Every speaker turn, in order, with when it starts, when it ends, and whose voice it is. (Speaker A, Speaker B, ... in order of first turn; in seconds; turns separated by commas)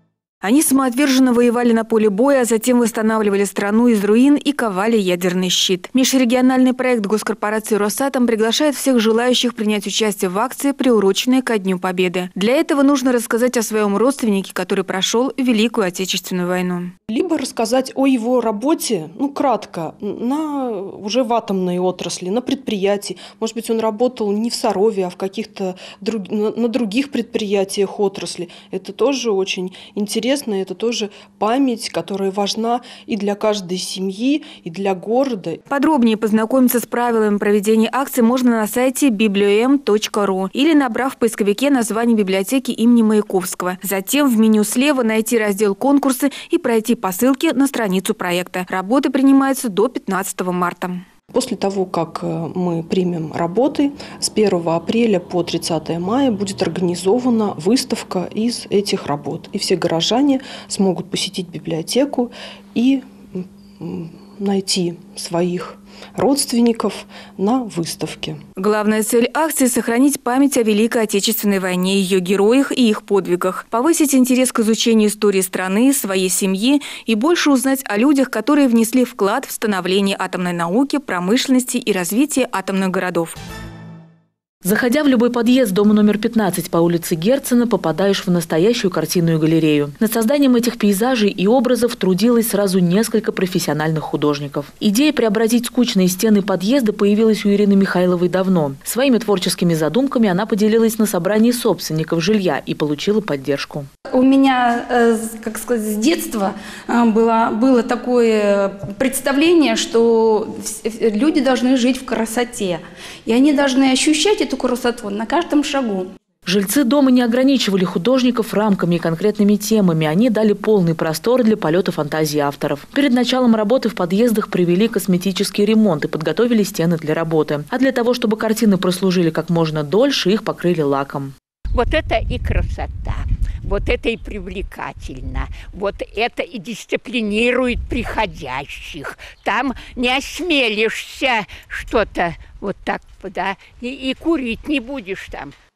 Speaker A: 0.4-16.9, Speaker B: 17.1-35.6, Speaker A: 35.7-51.0, Speaker B: 51.3-68.4, Speaker A: 68.6-83.3, Speaker C: 84.6-103.9, Speaker D: 104.1-116.1, Speaker C: 116.5-131.3, Speaker E: 131.7-145.5